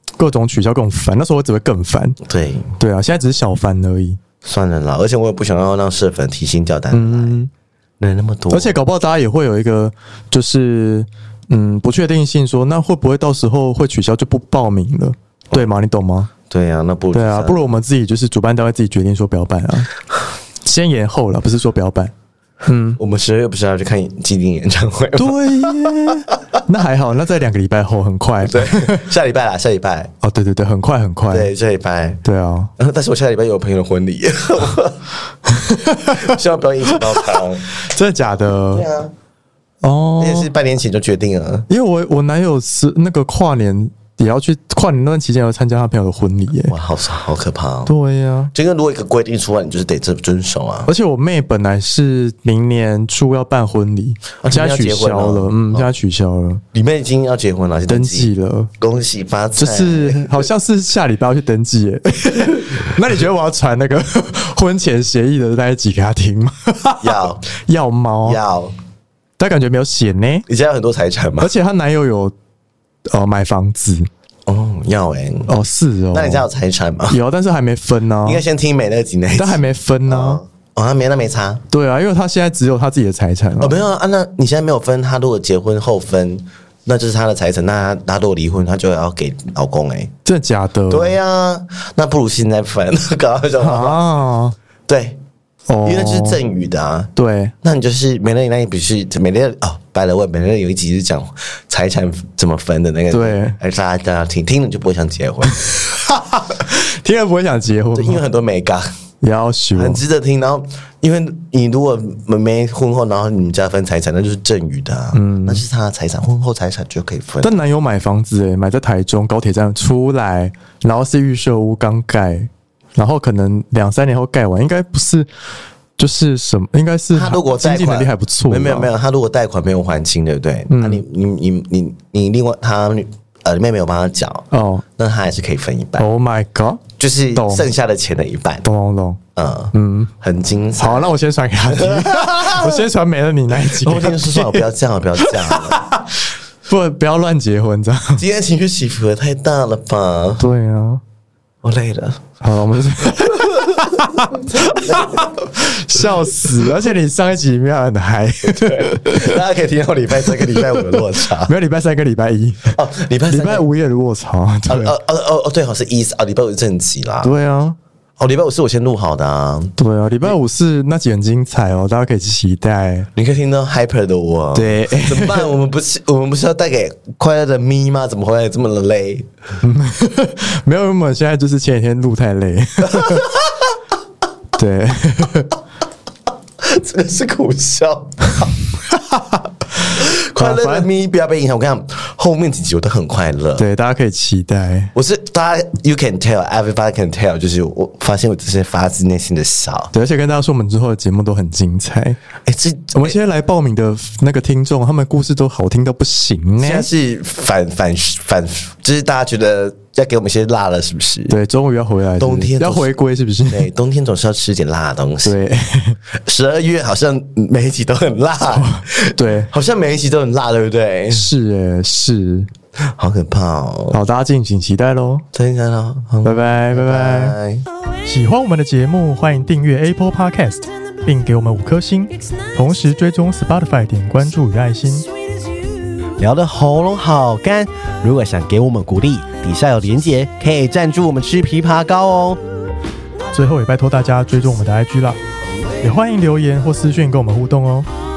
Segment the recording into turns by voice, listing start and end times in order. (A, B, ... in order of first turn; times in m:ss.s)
0:00.2-0:02.2 A
0:02.2-0:02.7 B
0:02.8-0:04.2 A
0:04.4-0:07.4 B
0:06.9-0:07.5 A
0:08.0-0:08.8 B
0:08.5-0:16.3 A
0:16.5-0:17.7 B
0:17.1-0:19.9 A
0:20.6-0:22.1 A
0:22.7-0:23.0 A
0:23.0-0:26.2 B
0:25.2-0:29.0 A
0:28.4-0:30.1 B
0:30.2-0:31.5 A
0:31.3-0:32.2 B
0:32.2-0:32.7 A
0:32.8-0:35.0 B
0:35.5-0:36.4 A
0:36.1-0:37.6 B
0:36.9-0:38.9 A
0:38.7-0:39.1 B
0:39.8-0:40.5 A
0:40.2-0:41.7 B
0:41.7-0:46.7 A
0:46.7-0:48.0 B
0:47.9-0:48.5 A
0:48.5-0:50.9 B
0:50.9-0:56.6 A
0:54.4-0:55.9 B
0:56.7-1:00.5 B
0:57.9-0:58.7 A
0:59.6-1:08.4 A
1:07.0-1:07.4 B
1:08.2-1:08.7 B
1:09.4-1:10.5 A
1:10.5-1:11.5 B
1:11.4-1:12.3 A
1:13.1-1:14.1 A
1:14.5-1:15.5 B
1:15.5-1:16.5 A
1:16.1-1:17.2 B
1:17.1-1:18.4 A
1:18.2-1:21.6 B
1:19.4-1:20.4 A
1:21.7-1:23.8 A
1:23.6-1:30.1 B
1:30.2-1:31.2 A
1:30.9-1:34.0 B
1:33.6-1:34.6 A
1:34.9-1:35.2 B
1:35.7-1:36.4 A
1:35.8-1:37.1 B
1:37.2-1:37.5 A
1:37.6-1:45.7 B
1:43.1-1:43.6 A
1:45.7-1:48.2 A
1:48.0-1:48.9 B
1:49.2-1:50.0 A
1:49.7-1:57.5 B
1:55.1-1:55.6 A
1:57.4-2:05.3 A
2:06.0-2:08.9 A
2:07.1-2:16.1 B
2:10.7-2:11.0 A
2:14.5-2:14.8 A
2:16.0-2:17.7 A
2:17.0-2:18.7 B
2:18.6-2:19.2 A
2:19.4-2:21.2 B
2:19.7-2:20.1 A
2:20.8-2:24.7 A
2:21.7-2:22.9 B
2:23.6-2:25.8 B
2:25.2-2:28.2 A
2:28.2-2:30.5 B
2:30.4-2:31.0 A
2:31.6-2:32.3 B
2:32.4-2:39.4 A
2:33.0-2:36.5 B
2:38.5-2:41.5 B
2:41.4-2:42.8 A
2:42.8-2:43.7 B
2:43.3-2:45.0 A
2:44.7-2:47.3 B
2:47.2-2:47.8 A
2:48.2-2:50.3 B
2:49.8-2:53.1 A
2:53.2-2:59.3 B
2:54.5-2:55.5 A
2:59.6-3:03.3 A
3:02.9-3:03.4 B
3:04.6-3:05.5 A
3:06.6-3:08.6 B
3:09.9-3:13.7 B
3:10.4-3:10.9 A
3:13.6-3:14.9 A
3:15.0-3:19.9 B
3:19.9-3:22.2 A
3:22.5-3:23.2 B
3:22.9-3:26.9 A
3:26.6-3:31.4 B
3:31.3-3:33.7 A
3:32.2-3:33.0 B
3:33.5-3:35.4 B
3:35.2-3:36.0 A
3:36.1-3:41.3 B
3:38.5-3:39.5 A
3:41.1-3:42.5 A
3:42.8-3:44.0 B
3:43.9-3:45.2 A
3:45.3-3:47.7 B
3:46.2-3:47.4 A
3:48.0-3:55.1 A
3:56.2-4:02.4 C
4:03.3-4:05.2 A
4:05.8-4:07.9 A